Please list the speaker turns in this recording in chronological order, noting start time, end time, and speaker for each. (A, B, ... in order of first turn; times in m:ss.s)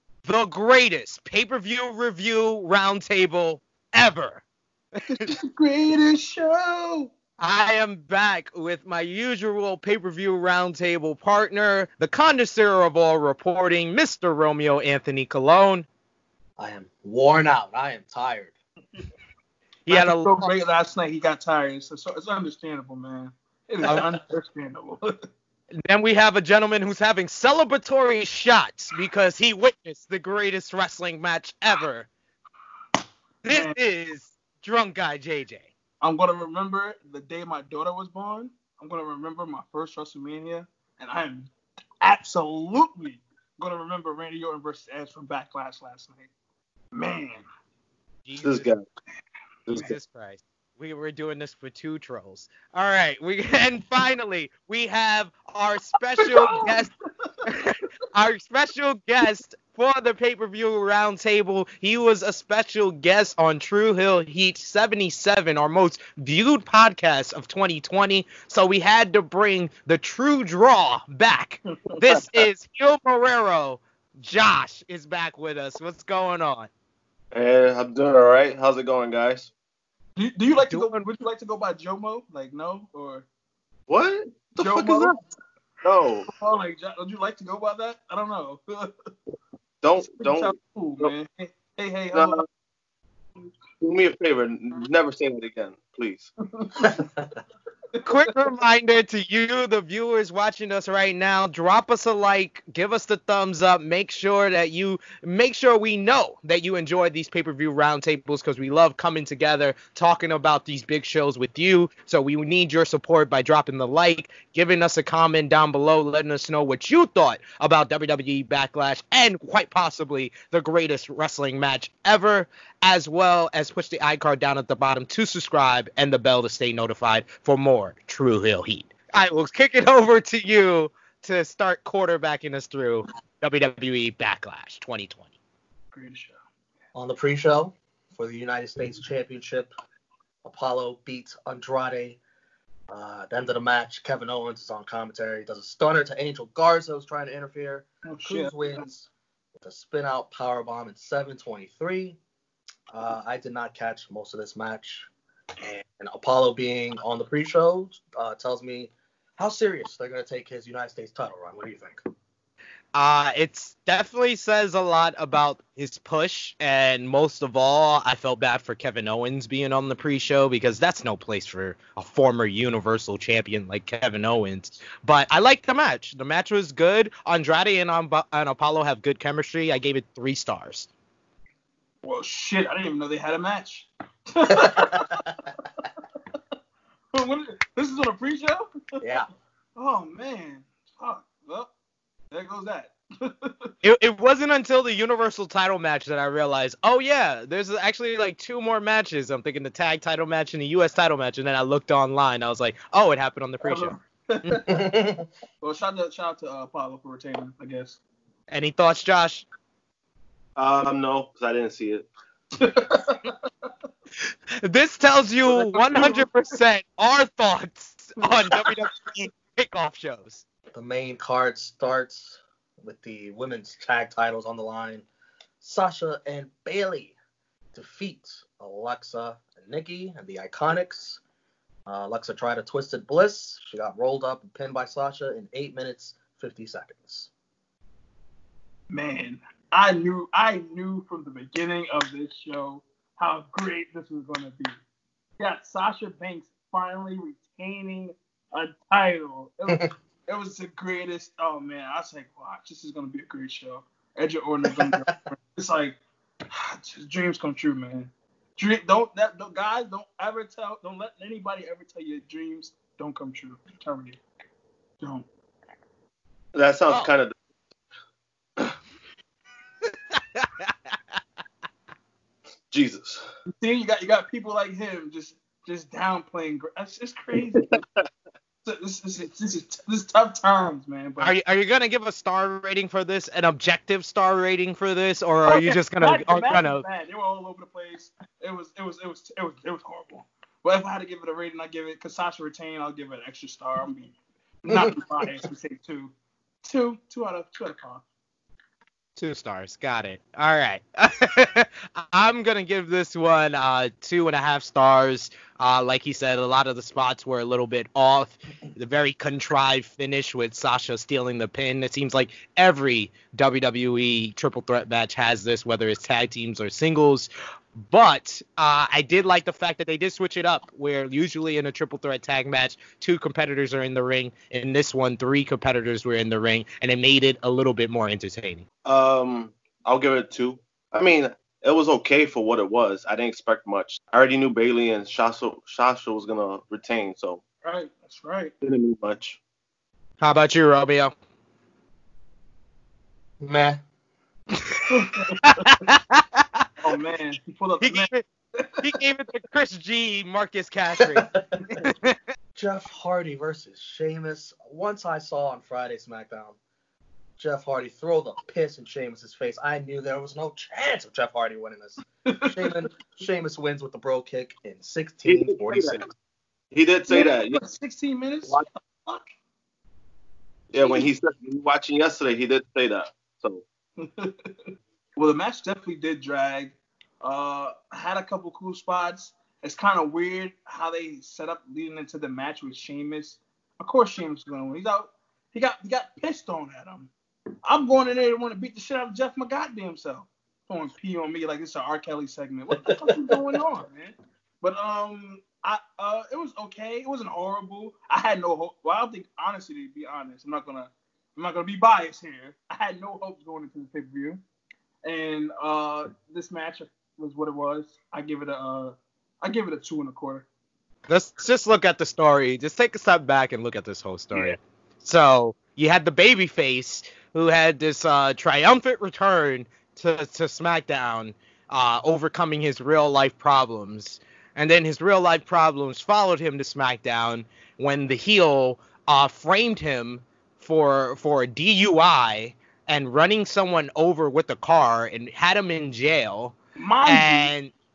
0:00.2-0:04.4 A
0:05.1-0:07.1 B
0:07.4-0:15.9 A
0:16.6-0:18.5 C
0:19.9-0:20.5 A
0:19.9-0:25.1 B
0:25.8-0:32.1 A
0:33.4-0:35.7 A
0:33.5-0:33.8 B
0:36.0-0:41.5 B
0:42.0-0:46.3 B
0:46.9-0:47.4 B
0:48.2-0:48.7 A
0:48.4-0:48.8 D
0:49.7-0:56.9 A
0:56.2-0:56.8 B
0:57.4-1:16.7 A
1:17.3-1:19.5 D
1:20.2-1:23.2 B
1:20.5-1:21.1 A
1:23.9-1:25.1 D
1:24.6-1:25.2 B
1:25.8-1:26.3 D
1:26.3-1:28.9 B
1:29.8-1:31.1 D
1:30.0-1:32.4 B
1:32.1-1:32.4 D
1:33.8-1:36.3 D
1:36.6-1:36.9 B
1:38.0-2:15.2 A
2:15.9-2:16.4 B
2:16.9-2:19.7 C
2:20.4-2:22.2 C
2:22.9-2:32.2 C
2:28.0-2:28.7 B
2:32.9-2:35.1 C
2:35.6-2:42.0 C
2:42.9-3:00.9 A
3:02.0-3:05.3 B
3:04.6-3:05.2 C
3:07.1-3:09.0 B
3:09.0-3:09.3 C
3:09.8-3:11.7 B
3:12.3-3:13.7 B
3:13.8-3:24.7 A
3:23.6-3:24.6 B
3:24.7-3:25.2 C
3:25.6-3:28.0 B
3:28.5-3:29.5 A
3:30.6-3:32.1 D
3:32.6-3:33.3 B
3:34.6-3:40.4 A
3:35.5-3:36.3 B
3:40.7-3:45.0 C
3:45.6-3:47.2 C
3:47.7-3:51.2 C
3:51.9-3:57.3 C
3:58.9-4:04.7 B
4:05.4-4:16.0 B
4:14.6-4:15.1 C
4:16.5-4:24.2 B
4:25.0-4:25.2 B
4:26.5-4:27.3 D
4:30.1-4:30.7 A
4:32.7-4:33.2 D
4:33.6-4:37.8 B
4:37.5-4:38.0 D
4:38.6-4:41.4 B
4:41.2-4:46.8 A
4:45.4-4:54.1 B
4:54.6-4:56.1 B
4:56.6-4:58.0 B
4:59.2-5:28.6 A
5:28.8-5:37.4 D
5:37.6-5:38.5 B
5:38.6-5:39.4 D
5:40.2-5:41.1 A
5:43.4-5:43.8 C
5:44.9-5:45.8 B
5:45.4-5:46.6 A
5:46.8-5:48.9 B
5:47.8-5:48.2 A
5:48.8-5:52.2 A
5:52.5-5:56.6 C
5:57.4-6:06.0 C
6:02.3-6:02.7 B
6:05.2-6:06.0 D
6:06.7-6:07.6 D
6:07.1-6:09.2 B
6:10.7-6:13.6 D
6:10.8-6:11.1 B
6:14.0-6:14.3 B
6:15.2-6:27.1 B
6:27.6-6:44.4 B
6:32.9-6:33.6 C
6:45.0-6:50.4 B
6:51.1-7:17.7 A
7:16.8-7:17.5 B